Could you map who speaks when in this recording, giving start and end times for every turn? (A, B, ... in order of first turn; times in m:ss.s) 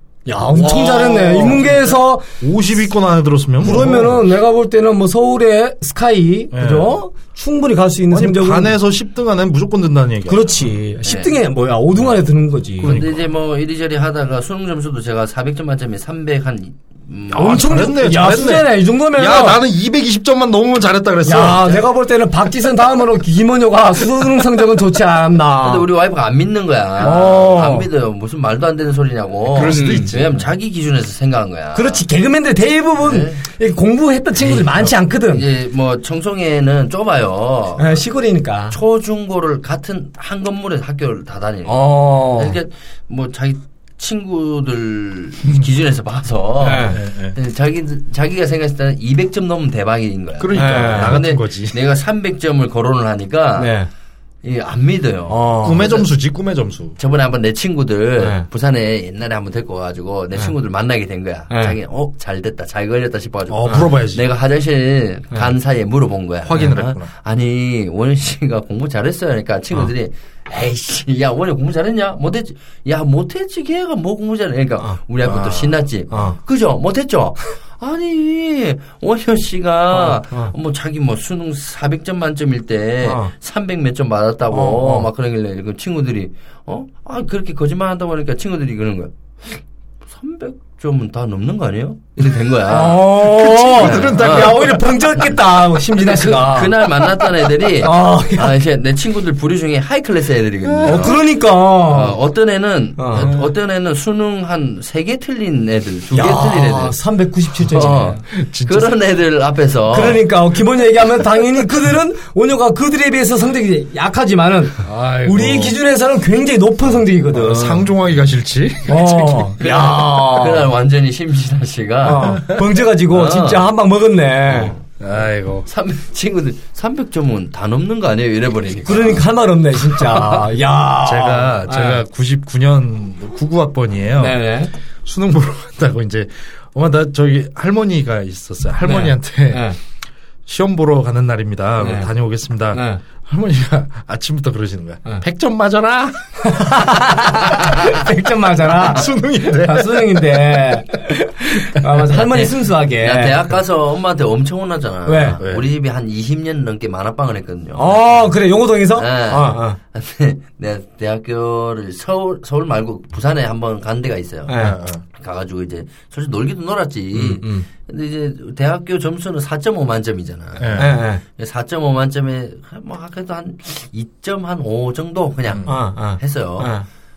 0:00.3-0:02.3 A
0:00.5-0:02.0 B
0:02.4-0:04.2 C
0:03.6-0:08.7 A
0:06.5-0:07.0 C
0:08.1-0:10.7 C
0:10.3-0:13.0 A
0:11.0-0:11.4 B
0:12.8-0:13.2 C
0:12.8-0:17.7 B
0:17.3-0:21.8 C
0:17.3-0:19.6 A
0:21.3-0:25.9 A
0:25.6-0:32.0 B
0:27.0-0:27.9 A
0:29.5-0:30.4 C
0:29.6-0:30.2 A
0:31.8-0:35.4 A
0:33.0-0:33.4 B
0:34.4-0:38.0 B
0:37.8-0:38.8 A
0:38.7-0:53.7 B
0:41.6-0:42.6 A
0:46.6-0:47.0 A
0:46.9-0:47.4 C
0:50.4-0:51.8 C
0:50.5-0:51.2 A
0:53.6-0:53.9 A
0:54.4-0:56.1 B
0:55.3-0:55.9 A
0:55.6-0:57.0 C
0:57.0-1:41.2 B
0:58.2-0:58.4 A
1:01.5-1:01.8 A
1:03.5-1:04.2 C
1:06.4-1:07.1 C
1:15.2-1:15.8 C
1:16.1-1:16.4 A
1:19.9-1:20.5 A
1:23.0-1:23.3 A
1:24.5-1:25.1 A
1:32.7-1:36.9 A
1:33.2-1:34.8 C
1:37.8-1:38.6 A
1:40.6-1:41.1 C
1:40.8-1:42.2 A
1:41.8-1:47.0 B
1:43.0-1:43.3 A
1:46.1-1:48.2 A
1:47.6-1:50.2 B
1:48.3-1:48.9 C
1:49.9-1:57.9 A
1:54.8-1:55.8 C
1:57.3-1:59.5 C
1:58.9-2:00.7 A
1:59.6-2:02.5 B
2:02.0-2:04.8 A
2:03.1-2:03.7 B
2:04.5-2:04.9 B
2:05.0-2:05.6 C
2:05.6-2:09.2 B
2:08.9-2:12.0 A
2:09.9-2:10.5 B
2:11.0-2:14.4 C
2:14.2-2:14.7 A
2:15.0-2:19.7 C
2:18.8-2:19.8 A
2:20.5-2:26.2 C
2:21.8-2:22.1 A
2:22.7-2:23.0 A
2:26.4-2:33.5 A
2:28.8-2:30.8 C
2:32.1-2:38.3 B
2:35.1-2:35.4 A
2:35.4-2:35.7 C
2:37.8-2:39.8 A
2:38.9-2:56.7 B
2:44.5-2:44.8 A
2:44.6-2:45.0 C
2:47.1-2:47.6 A
2:50.6-2:50.9 C
2:50.8-2:51.2 A
2:55.6-2:56.9 A